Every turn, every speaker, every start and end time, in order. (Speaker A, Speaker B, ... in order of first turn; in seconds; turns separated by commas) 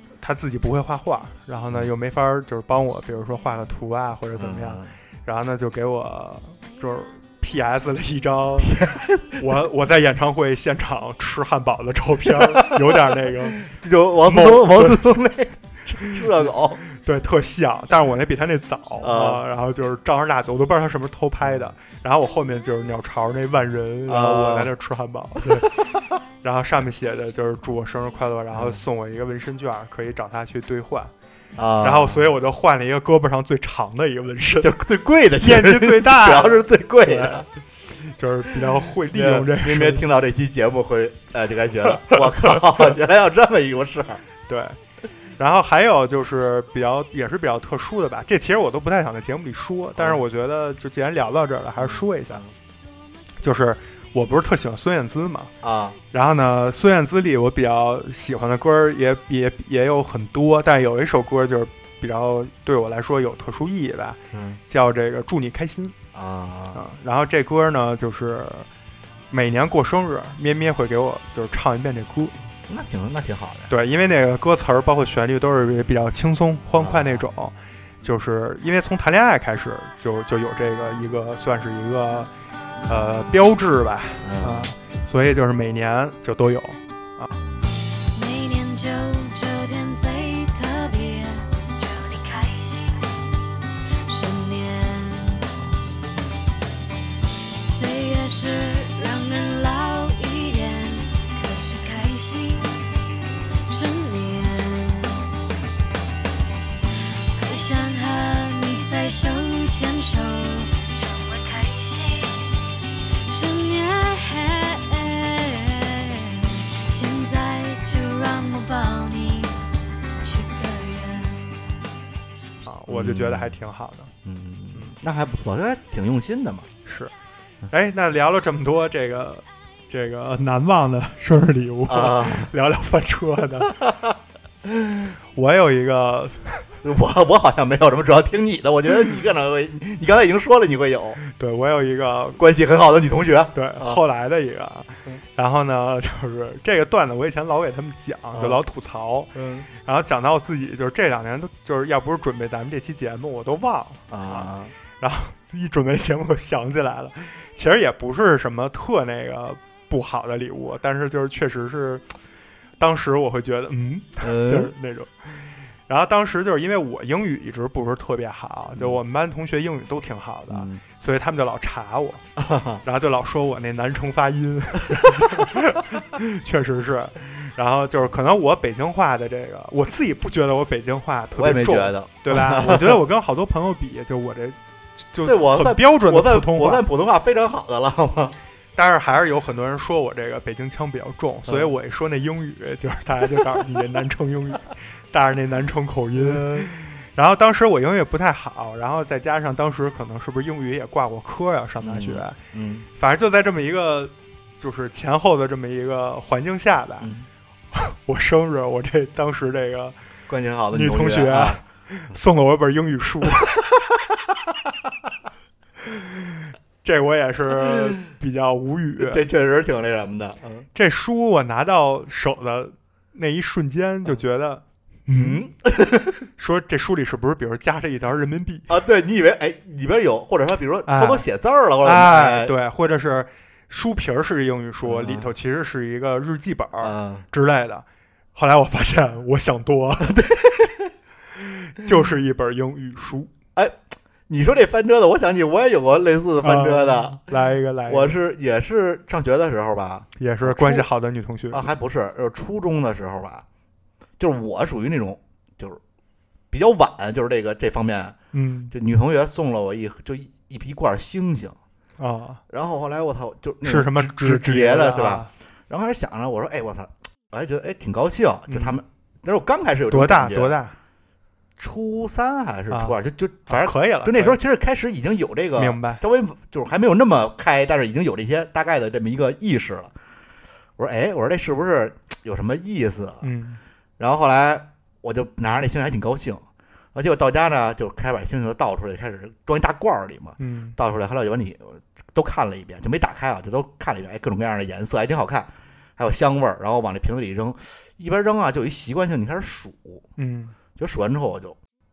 Speaker A: 0.2-8.8, Speaker B: 4.4-4.9, Speaker B: 8.6-9.4, Speaker A: 9.4-13.6, Speaker B: 12.3-16.8, Speaker A: 14.3-15.0, Speaker A: 16.9-25.8, Speaker B: 19.0-19.4, Speaker B: 21.4-21.7, Speaker B: 24.1-24.7, Speaker A: 26.4-31.1, Speaker B: 28.5-28.8, Speaker B: 31.6-32.3, Speaker A: 31.8-34.7, Speaker B: 34.6-37.5, Speaker A: 35.4-37.5, Speaker A: 38.0-40.0, Speaker B: 39.1-44.2, Speaker A: 42.1-42.6, Speaker A: 44.5-44.8, Speaker A: 45.4-52.4, Speaker B: 50.0-50.2, Speaker B: 51.8-52.5, Speaker A: 53.4-55.5, Speaker B: 55.6-56.0, Speaker A: 56.1-66.0, Speaker B: 64.3-64.6, Speaker B: 66.1-66.8, Speaker A: 66.7-68.7, Speaker A: 69.3-72.4, Speaker B: 72.7-73.7, Speaker A: 73.7-82.3, Speaker B: 76.8-77.3, Speaker A: 82.9-87.3, Speaker B: 84.2-84.7, Speaker C: 88.1-93.3, Speaker C: 94.1-95.5, Speaker C: 97.7-103.0, Speaker C: 103.7-105.3, Speaker C: 107.4-119.6, Speaker C: 120.2-121.6, Speaker A: 122.7-124.1, Speaker B: 122.9-123.6, Speaker B: 124.2-126.7, Speaker A: 126.9-127.1, Speaker A: 127.7-133.7, Speaker B: 131.9-132.5, Speaker B: 133.7-135.1, Speaker A: 135.4-136.6, Speaker B: 136.8-141.2, Speaker A: 141.2-142.4, Speaker B: 142.4-144.0, Speaker A: 143.5-154.5, Speaker B: 148.3-148.6, Speaker B: 149.3-149.7, Speaker B: 154.1-154.7, Speaker A: 155.0-162.0, Speaker A: 162.8-172.2, Speaker B: 164.2-164.7, Speaker B: 170.5-170.8, Speaker B: 172.4-172.8, Speaker A: 172.8-184.6, Speaker B: 181.3-183.0, Speaker A: 185.1-186.8, Speaker B: 185.2-188.4, Speaker A: 188.8-202.4, Speaker B: 191.5-191.7, Speaker B: 196.2-196.7, Speaker B: 201.8-202.9, Speaker A: 203.0-207.1, Speaker B: 207.0-207.3, Speaker A: 207.7-210.0, Speaker B: 210.3-211.6, Speaker A: 210.7-213.5, Speaker A: 216.8-219.2, Speaker B: 219.0-220.7, Speaker A: 220.8-225.4, Speaker B: 225.1-226.2, Speaker A: 226.4-228.7, Speaker B: 228.7-232.5, Speaker A: 230.9-231.2, Speaker A: 231.8-240.2, Speaker B: 234.8-235.3, Speaker B: 236.8-237.3, Speaker B: 240.0-240.9, Speaker A: 241.7-243.3, Speaker B: 243.6-247.2, Speaker A: 246.4-248.2, Speaker B: 247.9-250.9, Speaker A: 250.2-251.7, Speaker B: 251.5-253.4, Speaker B: 254.2-255.8, Speaker B: 256.5-258.2, Speaker A: 258.3-258.7, Speaker B: 258.7-261.6, Speaker A: 262.0-262.4, Speaker B: 262.5-270.6, Speaker A: 263.6-265.3, Speaker A: 268.5-268.8, Speaker A: 269.9-270.8, Speaker B: 271.6-279.9, Speaker A: 272.7-274.4, Speaker A: 275.6-276.0, Speaker B: 280.8-283.3, Speaker A: 283.2-283.6, Speaker B: 284.0-286.4, Speaker B: 286.9-300.1, Speaker A: 290.4-290.8, Speaker A: 300.2-300.5, Speaker B: 300.8-301.6